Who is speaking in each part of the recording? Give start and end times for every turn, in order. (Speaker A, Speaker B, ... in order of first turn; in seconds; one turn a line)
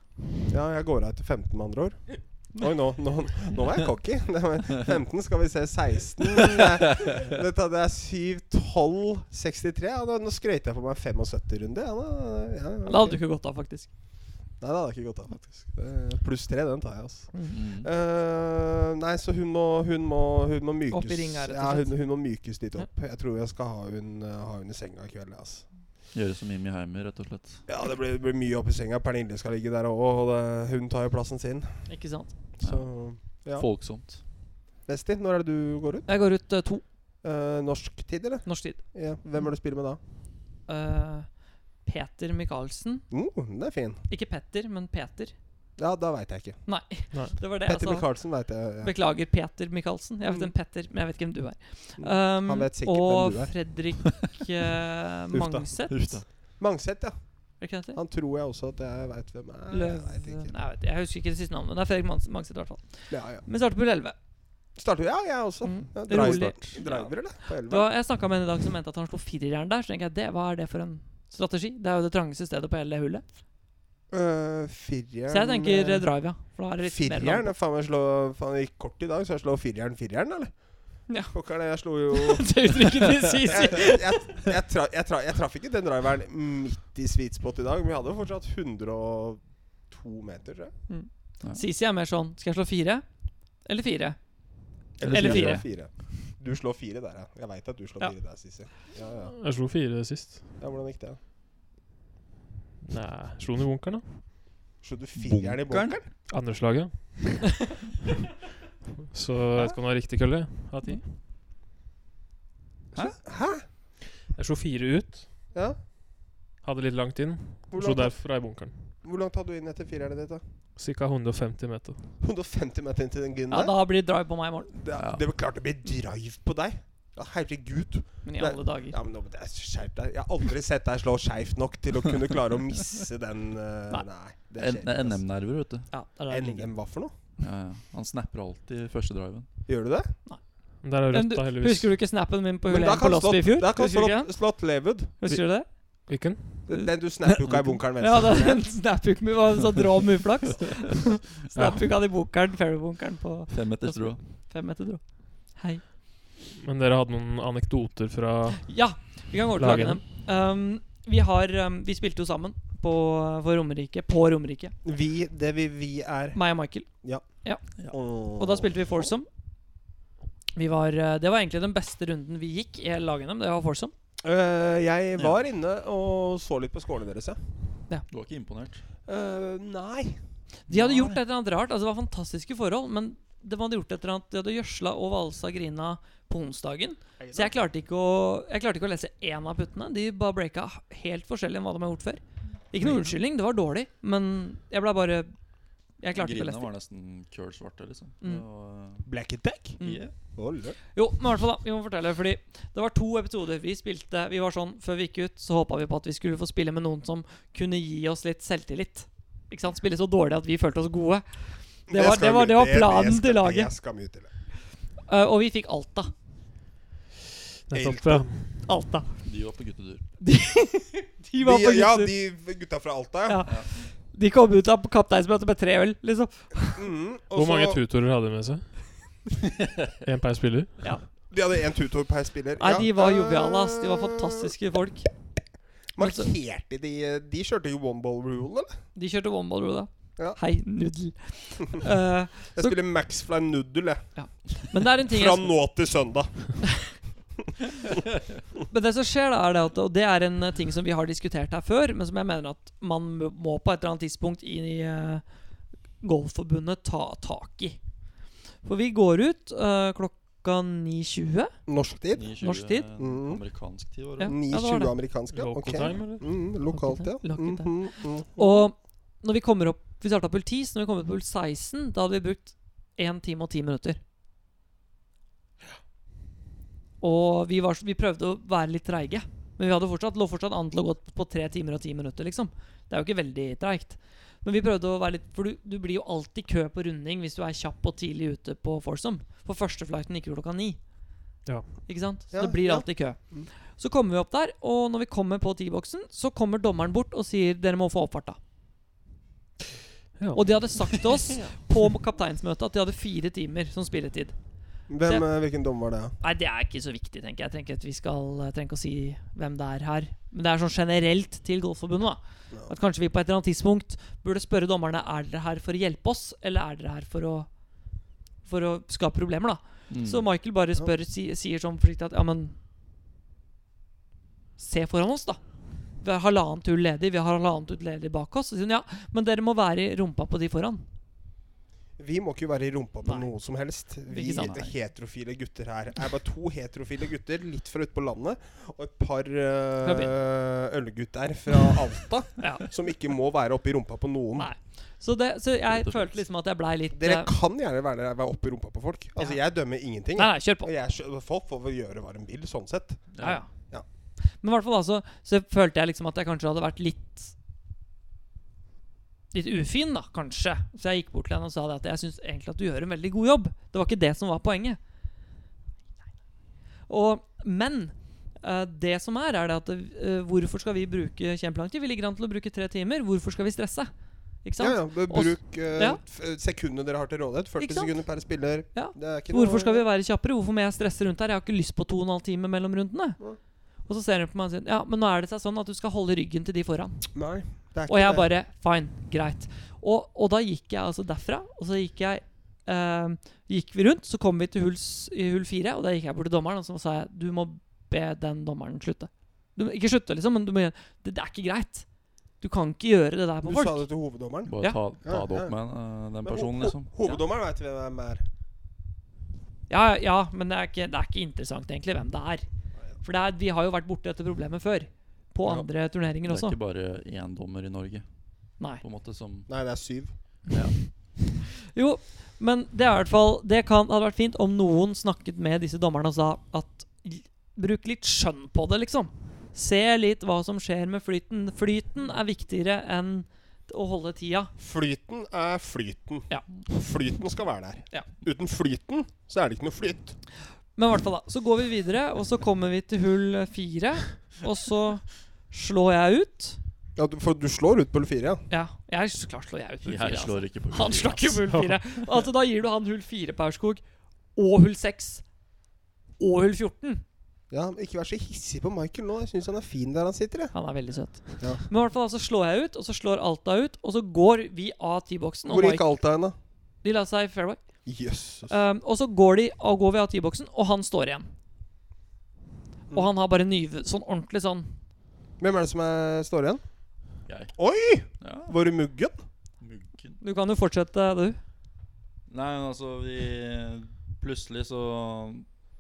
Speaker A: 0.5-13.2
Speaker B: 12.8-13.9
Speaker A: 14.6-25.6
Speaker C: 17.5-17.9
Speaker B: 20.9-22.1
Speaker C: 26.1-27.6
Speaker A: 27.7-31.9
Speaker B: 31.9-32.3
Speaker A: 32.6-33.7
Speaker C: 32.6-34.2
Speaker A: 34.9-36.1
Speaker B: 36.1-36.8
Speaker A: 37.2-40.0
Speaker B: 38.5-38.8
Speaker B: 40.7-43.1
Speaker A: 43.1-44.0
Speaker B: 44.1-45.4
Speaker A: 45.8-46.7
Speaker B: 46.7-56.2
Speaker A: 47.6-48.9
Speaker A: 52.0-53.6
Speaker A: 55.3-60.5
Speaker C: 55.9-56.2
Speaker B: 57.6-58.0
Speaker B: 59.7-64.2
Speaker A: 63.1-63.5
Speaker A: 64.7-67.9
Speaker B: 65.6-73.2
Speaker C: 66.2-66.5
Speaker A: 74.1-76.1
Speaker B: 75.3-77.5
Speaker A: 76.8-82.7
Speaker B: 81.1-81.3
Speaker B: 82.1-84.2
Speaker A: 83.5-90.7
Speaker B: 90.9-93.1
Speaker B: 93.6-94.4
Speaker A: 95.0-99.3
Speaker C: 95.0-95.6
Speaker B: 95.1-95.6
Speaker D: 99.3-100.4
Speaker A: 100.6-101.2
Speaker D: 102.8-104.3
Speaker A: 104.8-106.1
Speaker C: 105.2-106.0
Speaker D: 106.3-107.8
Speaker D: 109.1-111.2
Speaker A: 113.0-113.6
Speaker D: 114.3-115.3
Speaker A: 115.5-115.8
Speaker D: 116.6-118.8
Speaker A: 117.7-120.4
Speaker D: 120.8-122.0
Speaker A: 122.2-123.8
Speaker B: 123.5-124.7
Speaker A: 124.7-135.2
Speaker C: 125.0-125.2
Speaker B: 128.2-129.0
Speaker C: 134.6-135.9
Speaker B: 135.9-136.7
Speaker A: 136.3-137.1
Speaker C: 137.4-139.5
Speaker A: 139.7-140.1
Speaker B: 140.3-144.6
Speaker D: 140.8-141.9
Speaker A: 142.7-145.2
Speaker B: 145.2-146.2
Speaker D: 145.3-146.7
Speaker A: 146.7-148.6
Speaker C: 147.4-147.7
Speaker B: 148.0-155.8
Speaker D: 151.6-151.8
Speaker C: 153.5-154.2
Speaker D: 156.6-158.7
Speaker B: 158.6-164.8
Speaker D: 159.6-160.0
Speaker A: 164.8-169.1
Speaker B: 166.3-167.7
Speaker B: 168.3-169.3
Speaker B: 170.6-173.9
Speaker A: 174.2-177.4
Speaker C: 178.1-178.8
Speaker A: 179.1-180.2
Speaker B: 180.7-195.3
Speaker C: 180.7-181.2
Speaker A: 187.2-187.6
Speaker A: 192.8-193.1
Speaker B: 196.0-196.7
Speaker C: 196.1-199.1
Speaker A: 199.1-200.8
Speaker B: 199.8-200.1
Speaker C: 199.8-200.1
Speaker B: 200.9-213.7
Speaker A: 211.9-214.3
Speaker B: 215.1-216.1
Speaker D: 217.7-218.6
Speaker A: 217.7-218.3
Speaker B: 218.6-219.1
Speaker C: 219.2-220.0
Speaker B: 220.2-222.1
Speaker A: 221.4-223.5
Speaker B: 223.3-226.8
Speaker A: 226.8-227.8
Speaker D: 227.3-228.9
Speaker D: 230.0-230.8
Speaker A: 231.3-234.5
Speaker B: 232.6-235.1
Speaker A: 235.9-238.8
Speaker B: 236.0-236.3
Speaker B: 238.9-242.8
Speaker A: 242.5-244.1
Speaker B: 244.2-245.6
Speaker A: 245.0-246.9
Speaker B: 248.7-255.3
Speaker B: 256.0-257.8
Speaker B: 258.6-261.5
Speaker A: 261.7-262.3
Speaker C: 262.1-264.4
Speaker B: 262.4-262.9
Speaker A: 263.0-263.4
Speaker B: 264.2-265.0
Speaker A: 264.2-268.6
Speaker D: 265.3-266.3
Speaker B: 266.7-274.0
Speaker B: 277.0-290.8
Speaker B: 291.9-298.4
Speaker A: 292.3-293.5
Speaker D: 300.2-300.5
Speaker B: 300.3-304.4
Speaker A: 304.9-306.2
Speaker B: 306.2-317.5
Speaker B: 318.4-322.6
Speaker C: 319.9-320.3
Speaker B: 324.6-325.4
Speaker B: 326.0-330.9
Speaker A: 332.0-344.5
Speaker B: 333.0-333.3
Speaker B: 334.1-334.6
Speaker C: 334.4-334.7
Speaker B: 339.8-340.1
Speaker B: 342.4-342.7
Speaker B: 344.4-347.3
Speaker C: 345.7-346.1
Speaker A: 346.9-353.2
Speaker B: 350.2-350.7
Speaker C: 353.1-353.4
Speaker B: 353.2-353.5
Speaker B: 354.2-357.3
Speaker B: 359.3-364.8
Speaker B: 366.9-376.0
Speaker A: 374.6-379.9
Speaker B: 377.6-378.0
Speaker B: 378.7-383.2
Speaker B: 383.9-387.1
Speaker A: 387.1-388.3
Speaker B: 387.9-401.9
Speaker B: 402.4-403.9
Speaker A: 403.4-405.6
Speaker C: 404.5-406.9
Speaker A: 406.2-408.2
Speaker B: 409.7-412.5
Speaker B: 413.0-416.6
Speaker C: 416.2-418.1
Speaker C: 418.6-419.5
Speaker A: 419.5-420.1
Speaker C: 420.5-421.0
Speaker B: 421.7-434.5
Speaker A: 434.6-440.2
Speaker B: 440.8-446.6
Speaker A: 447.0-448.4
Speaker B: 448.5-453.8
Speaker C: 449.9-451.5
Speaker B: 454.4-455.2
Speaker B: 456.2-457.0
Speaker A: 457.5-460.5
Speaker B: 460.5-465.9
Speaker A: 465.4-466.4
Speaker B: 466.8-467.6
Speaker A: 467.9-468.6
Speaker B: 468.5-471.3
Speaker B: 472.9-474.8
Speaker A: 475.4-476.6
Speaker C: 477.3-478.6
Speaker A: 477.6-479.2
Speaker C: 479.6-480.2
Speaker B: 480.2-481.4
Speaker C: 482.3-485.5